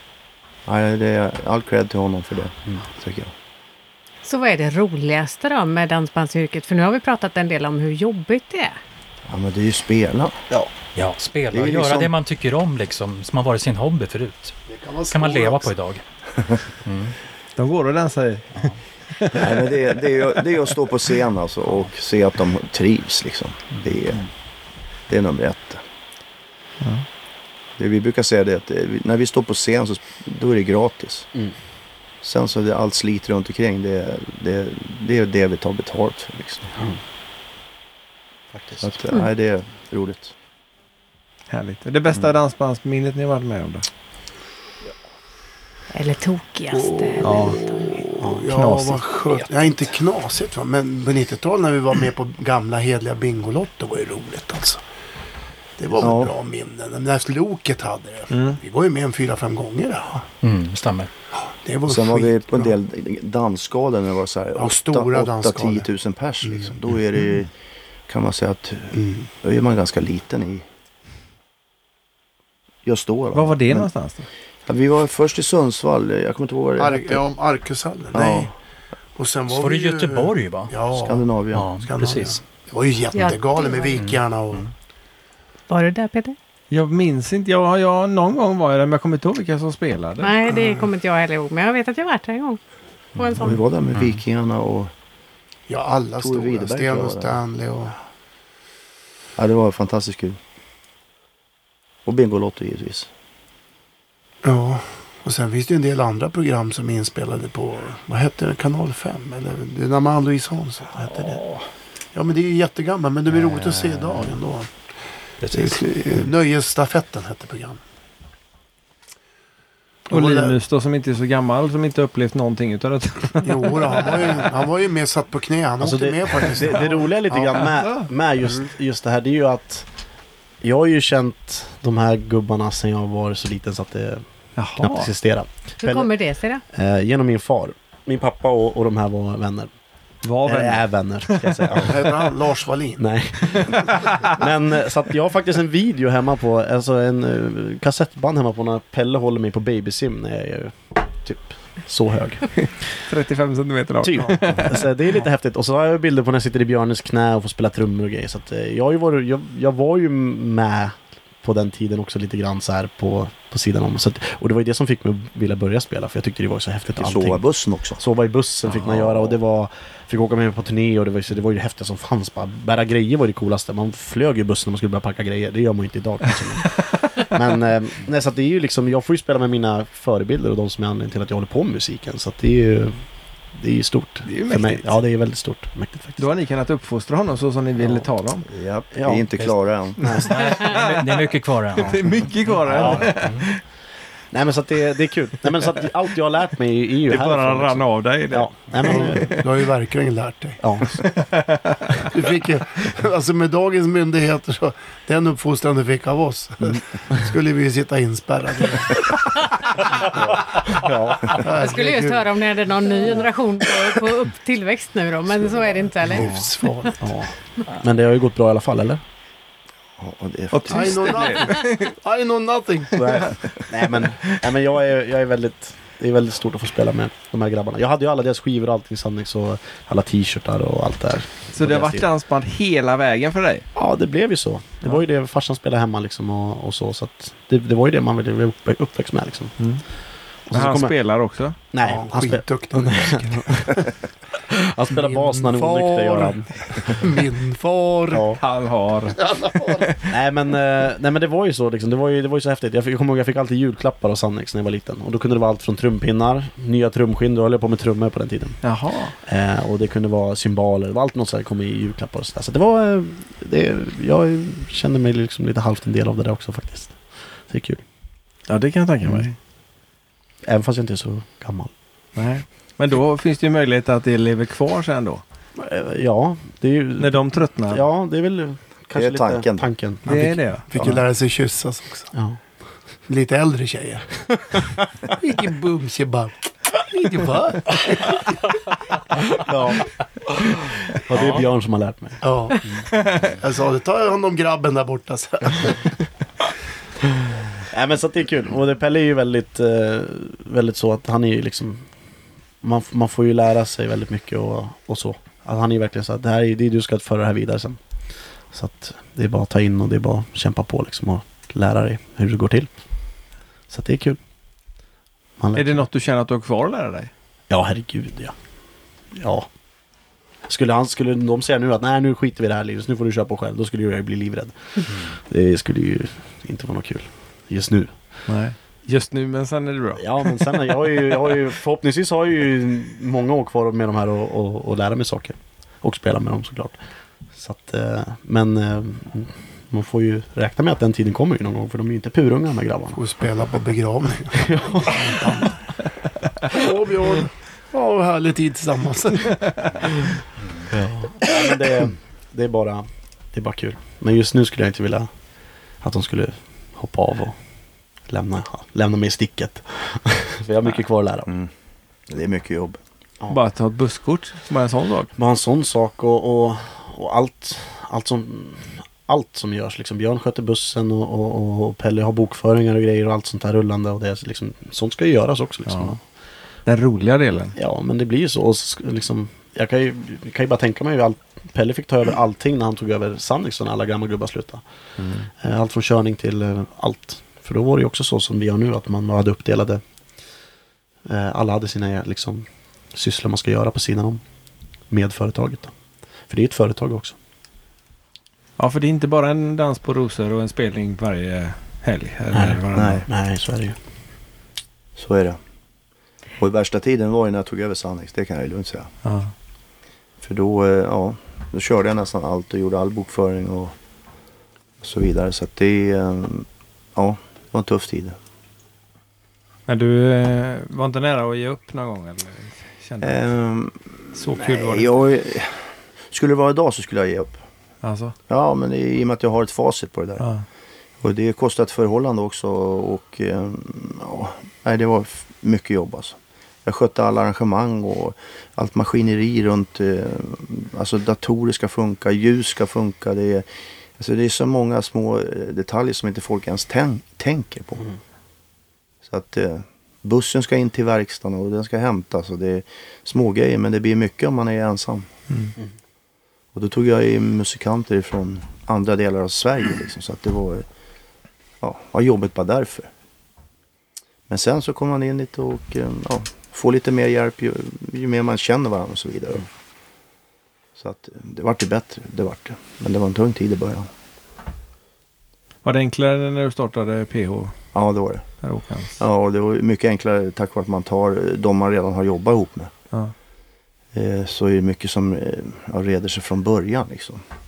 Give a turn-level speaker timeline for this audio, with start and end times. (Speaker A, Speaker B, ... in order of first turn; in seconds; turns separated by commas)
Speaker A: 0.7-3.3, Speaker B: 4.2-8.8, Speaker A: 9.3-10.4, Speaker C: 11.0-14.6, Speaker A: 11.5-12.1, Speaker D: 14.7-15.7, Speaker C: 15.1-17.1, Speaker E: 17.6-19.5, Speaker A: 19.3-24.3, Speaker A: 25.1-25.8, Speaker E: 26.8-27.1, Speaker A: 27.8-31.3, Speaker A: 32.2-36.9, Speaker F: 38.5-38.9, Speaker A: 38.8-40.3, Speaker E: 41.5-43.9, Speaker B: 45.9-47.8, Speaker D: 46.7-54.8, Speaker E: 47.2-47.6, Speaker F: 48.2-48.5, Speaker E: 48.5-49.0, Speaker D: 55.8-60.2, Speaker A: 56.0-56.3, Speaker E: 58.3-58.6, Speaker C: 60.4-61.1, Speaker D: 61.6-62.7, Speaker A: 61.9-67.5, Speaker D: 64.6-65.9, Speaker D: 66.5-66.7, Speaker A: 68.1-70.7, Speaker D: 68.9-69.3, Speaker A: 72.8-73.9, Speaker E: 73.3-74.3, Speaker A: 74.7-77.2, Speaker D: 76.8-78.5, Speaker A: 78.1-78.5, Speaker D: 79.2-84.7, Speaker C: 79.5-80.7, Speaker A: 80.9-81.7, Speaker C: 81.5-82.4, Speaker B: 83.1-84.0, Speaker C: 84.0-84.7, Speaker B: 85.7-86.3, Speaker E: 86.7-90.4, Speaker B: 90.2-92.6, Speaker B: 93.2-93.6, Speaker A: 93.3-94.9, Speaker D: 95.7-98.0, Speaker A: 96.2-97.4, Speaker A: 99.4-100.4, Speaker A: 102.1-103.1, Speaker D: 104.4-111.4, Speaker C: 111.1-111.6, Speaker D: 112.1-114.7, Speaker C: 115.4-115.8, Speaker D: 115.5-117.8, Speaker D: 120.1-120.6, Speaker E: 120.1-124.2, Speaker D: 123.4-127.7, Speaker F: 125.8-129.9, Speaker F: 130.6-134.2, Speaker E: 134.6-135.1, Speaker F: 134.8-136.1, Speaker B: 135.8-136.6, Speaker F: 136.7-139.7, Speaker E: 140.2-141.9, Speaker F: 140.4-142.1, Speaker D: 141.8-143.1, Speaker F: 143.0-152.5, Speaker E: 143.9-144.3, Speaker E: 152.6-154.9, Speaker F: 154.0-167.4, Speaker A: 167.0-168.0, Speaker F: 168.0-186.3, Speaker E: 168.7-169.3, Speaker E: 184.3-184.9, Speaker E: 186.2-188.5, Speaker A: 188.5-190.2, Speaker F: 188.9-189.3, Speaker F: 190.0-190.5, Speaker E: 190.1-191.2, Speaker C: 190.1-192.2, Speaker E: 191.8-193.6, Speaker F: 192.7-193.2, Speaker C: 192.8-193.5, Speaker F: 194.3-199.4, Speaker E: 197.1-199.2, Speaker D: 198.9-200.6, Speaker F: 200.6-201.1, Speaker E: 201.0-202.1, Speaker D: 202.1-209.3, Speaker F: 210.0-211.5, Speaker D: 211.3-212.3, Speaker B: 211.4-216.9, Speaker D: 215.4-217.1, Speaker F: 216.1-216.4, Speaker F: 217.0-219.0, Speaker A: 220.0-221.1, Speaker E: 220.5-221.9, Speaker D: 220.7-223.2, Speaker A: 223.1-223.4, Speaker F: 223.7-232.1, Speaker E: 231.5-233.7, Speaker F: 233.8-239.6, Speaker E: 239.6-239.8, Speaker F: 240.5-241.0, Speaker E: 240.5-241.7, Speaker F: 241.6-243.8, Speaker D: 241.8-243.7, Speaker F: 244.5-247.0, Speaker D: 244.9-248.4, Speaker F: 248.1-248.4, Speaker E: 248.4-249.2, Speaker D: 249.1-249.9, Speaker E: 249.8-250.1, Speaker F: 250.1-258.6, Speaker E: 258.6-259.1, Speaker F: 259.2-267.0, Speaker F: 267.5-267.8, Speaker E: 268.5-269.4, Speaker F: 269.0-269.3, Speaker F: 270.5-271.7, Speaker E: 272.2-275.2, Speaker F: 275.6-280.4, Speaker E: 277.0-277.8, Speaker A: 278.9-279.7, Speaker E: 280.1-280.7, Speaker D: 280.7-282.1, Speaker D: 283.1-288.3, Speaker F: 289.3-290.5, Speaker F: 291.1-292.2, Speaker D: 292.2-292.7, Speaker D: 293.3-295.9, Speaker F: 297.7-301.8, Speaker F: 302.6-307.8, Speaker F: 308.5-312.7, Speaker F: 313.7-314.2, Speaker F: 315.4-315.8, Speaker E: 315.5-317.1, Speaker F: 317.5-318.3, Speaker F: 319.1-319.5, Speaker F: 320.5-327.9, Speaker E: 328.3-330.5, Speaker F: 330.0-336.8, Speaker F: 337.4-343.0, Speaker D: 342.9-345.6, Speaker F: 344.3-345.3, Speaker D: 346.5-349.7, Speaker F: 350.7-355.1, Speaker F: 355.8-357.4, Speaker F: 358.1-361.3, Speaker A: 362.1-362.8, Speaker E: 363.3-365.1, Speaker F: 365.2-376.0, Speaker E: 375.7-376.0, Speaker E: 376.7-377.5, Speaker F: 377.6-384.6, Speaker F: 385.4-389.8, Speaker F: 391.1-394.2, Speaker F: 394.9-395.7, Speaker F: 396.3-397.2, Speaker E: 398.6-403.1, Speaker F: 402.3-403.8, Speaker A: 402.7-403.0, Speaker A: 405.0-405.4, Speaker A: 406.4-408.9, Speaker E: 409.0-409.3, Speaker A: 410.2-413.8, Speaker A: 414.8-418.2, Speaker E: 419.7-423.2, Speaker A: 423.0-427.4, Speaker E: 424.1-424.9, Speaker E: 427.8-428.1, Speaker A: 428.3-430.3, Speaker E: 430.2-430.4, Speaker A: 431.0-447.9, Speaker A: 449.1-455.1, Speaker A: 456.6-460.7, Speaker A: 461.6-462.9, Speaker A: 464.3-469.5, Speaker A: 470.8-473.9, Speaker E: 475.6-477.6, Speaker A: 477.7-478.3, Speaker E: 478.4-478.9, Speaker A: 479.0-482.7, Speaker A: 483.9-487.2